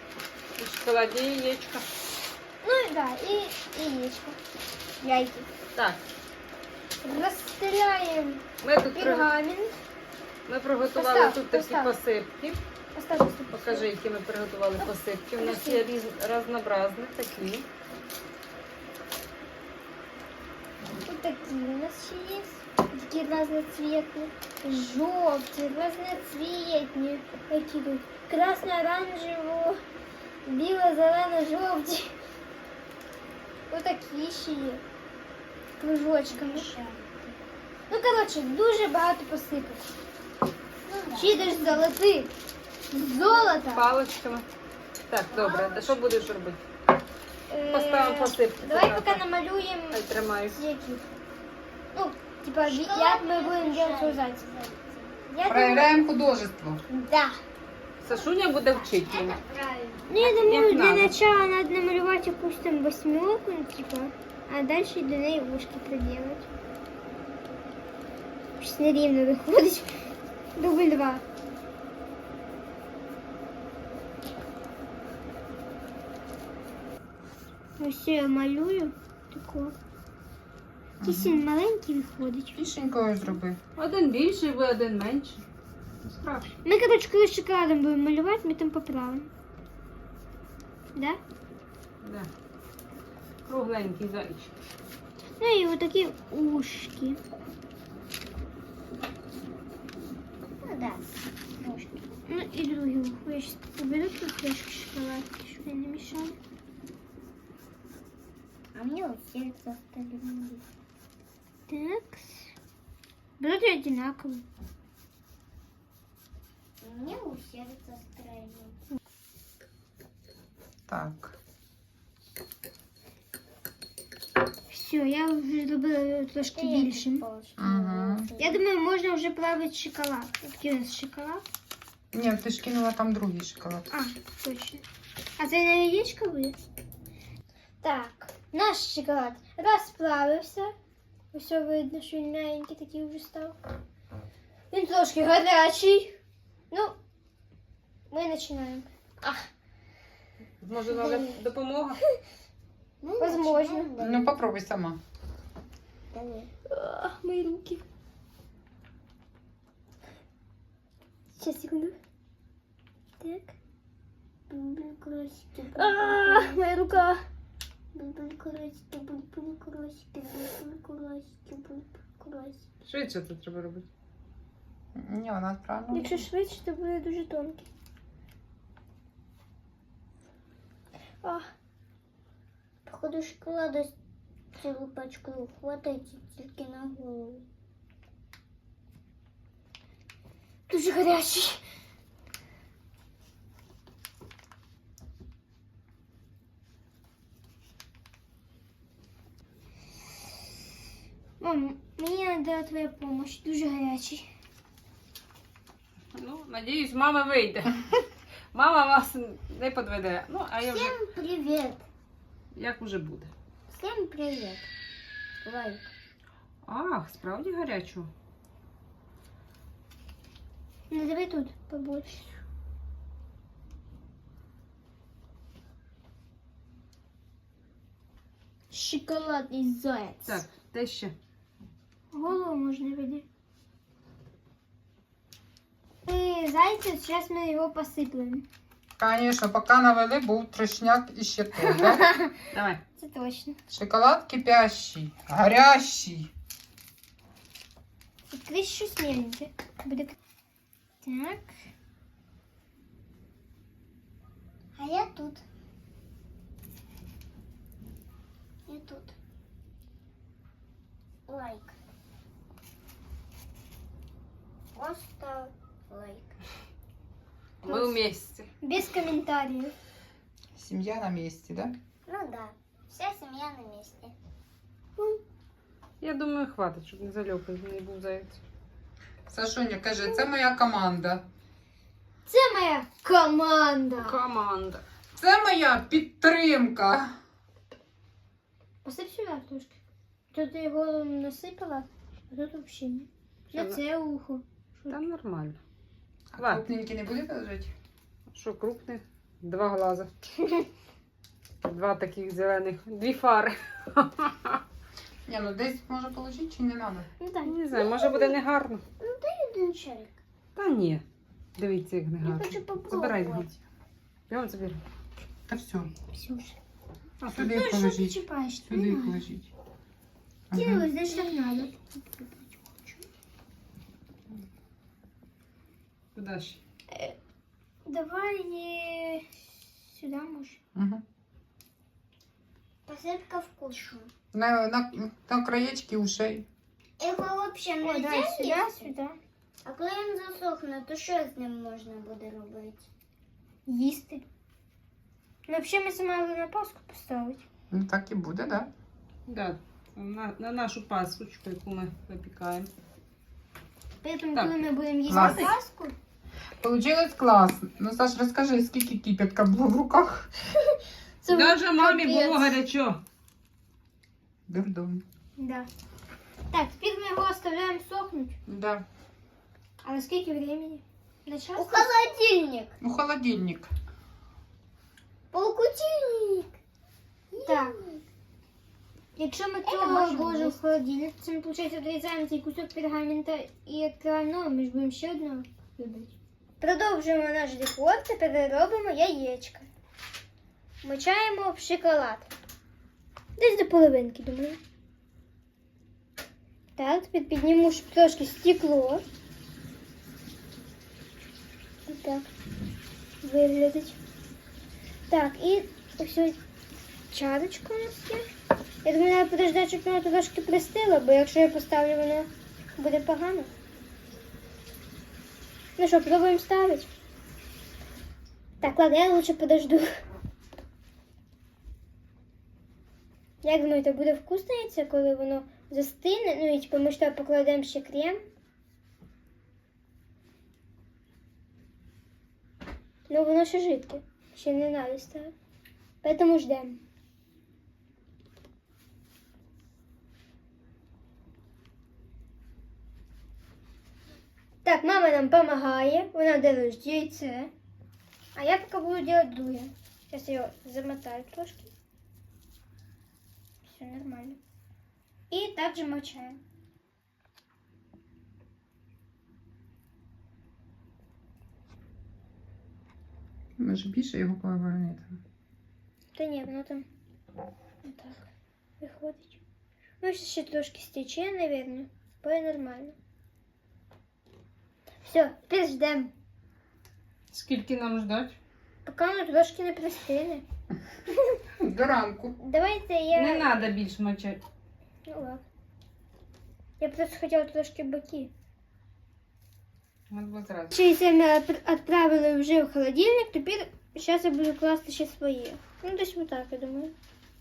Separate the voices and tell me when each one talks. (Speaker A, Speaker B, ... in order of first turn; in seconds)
Speaker A: 0.6-1.9, 5.8-6.0, 8.6-9.3, 10.5-12.6, 13.5-17.7, 43.7-44.5, 45.1-46.6, 47.7-49.2, 49.9-50.6, 58.0-59.4, 60.2-61.1, 83.8-85.4, 86.0-86.5, 92.0-92.3, 93.5-94.5, 150.6-152.0, 172.8-173.9, 206.1-211.0, 212.5-213.3, 216.7-218.1, 230.3-231.2, 242.5-242.8, 267.7-268.5, 276.0-278.4, 284.0-284.8, 293.5-293.8, 294.9-295.6, 296.4-296.6, 298.3-300.1, 301.6-304.6, 307.4-308.8, 310.6-311.0, 311.6-313.5, 314.3-314.8, 317.2-317.5, 326.1-326.6, 349.3-352.7, 355.1-355.5, 361.3-363.0, 477.3-478.4, 483.1-484.4, 490.1-490.8
Speaker B: 2.6-4.4, 5.0-5.5, 7.0-9.8, 10.9-11.9, 12.9-13.9, 15.4-15.8, 21.1-29.8, 30.5-32.2, 33.7-34.8, 35.8-36.7, 37.9-39.9, 41.2-42.3, 42.9-43.9, 47.5-50.0, 50.5-51.1, 51.9-54.4, 55.3-55.9, 56.9-57.4, 60.1-66.5, 68.6-70.0, 70.6-71.2, 77.8-79.8, 81.0-82.6, 86.6-89.3, 91.0-91.2, 95.4-97.2, 102.3-106.4, 111.7-112.5, 113.4-114.5, 124.7-127.3, 128.4-131.4, 133.9-134.8, 135.4-136.6, 137.8-140.7, 141.3-143.6, 144.7-146.2, 146.7-147.0, 148.1-148.9, 153.2-153.9, 156.7-157.8, 161.4-162.0, 163.2-163.5, 165.8-167.2, 175.9-177.7, 181.2-181.5, 190.7-191.6, 201.4-204.3, 220.9-222.4, 232.1-233.2, 236.1-238.5, 241.6-242.4, 242.9-243.6, 248.3-250.2, 251.0-251.5, 267.6-268.0, 268.6-269.8, 282.3-284.2, 288.9-289.8, 290.3-295.0, 307.2-307.5, 316.1-316.6, 317.3-319.2, 320.5-321.8, 327.9-330.6, 337.8-339.2, 343.7-344.2, 345.5-347.4, 354.0-355.9, 361.2-362.6, 365.4-365.7, 366.5-368.4, 369.8-371.9, 377.4-377.8, 379.2-385.5, 386.6-389.7, 390.8-392.3, 393.4-394.6, 396.8-399.0, 403.2-404.0, 405.1-406.4, 407.1-408.2, 408.8-413.5, 415.8-416.9, 418.6-419.9, 423.4-428.2, 433.1-435.3, 436.0-436.8, 444.6-447.5, 448.4-451.7, 453.6-454.4, 455.3-456.4, 466.1-466.9, 467.8-468.2, 468.8-469.4, 470.0-473.0, 475.0-476.1, 478.9-480.4, 482.4-483.6, 485.1-485.4, 486.8-488.3, 490.7-496.9
Speaker C: 36.3-37.4, 40.8-41.9, 43.0-43.6, 45.3-46.0, 52.6-55.2, 58.1-60.1, 100.5-101.0, 101.6-102.1, 108.7-110.7, 116.8-118.8, 126.5-128.6, 149.2-149.5, 150.9-151.4, 153.0-154.4, 156.1-156.5, 164.5-166.6, 167.9-172.6, 182.9-183.9, 184.6-187.4, 210.7-211.8, 213.7-214.7, 215.4-215.9, 228.7-230.4, 254.8-255.4, 258.7-259.1, 261.3-261.8, 264.8-266.3, 272.1-274.1, 307.7-308.4, 309.0-310.2, 312.2-313.5, 332.9-334.1, 337.0-338.9, 339.6-342.9, 371.6-372.7, 375.3-376.5, 377.3-378.0, 379.6-380.6, 385.8-386.1, 401.9-402.2
Speaker D: 55.5-56.8, 81.0-81.4, 82.5-83.6, 120.9-121.4, 127.6-128.3, 132.1-133.9, 154.0-155.0, 174.9-176.3, 239.0-242.1, 243.7-246.3, 270.6-271.8, 279.3-281.2, 285.2-287.2, 296.3-297.7, 305.3-307.1, 315.5-315.9, 317.3-319.5, 320.5-320.9, 330.8-331.0, 334.3-336.5, 347.7-348.7, 355.1-355.5, 356.6-360.3, 364.5-365.0, 368.5-368.9, 372.8-373.7, 463.6-465.2, 481.6-482.4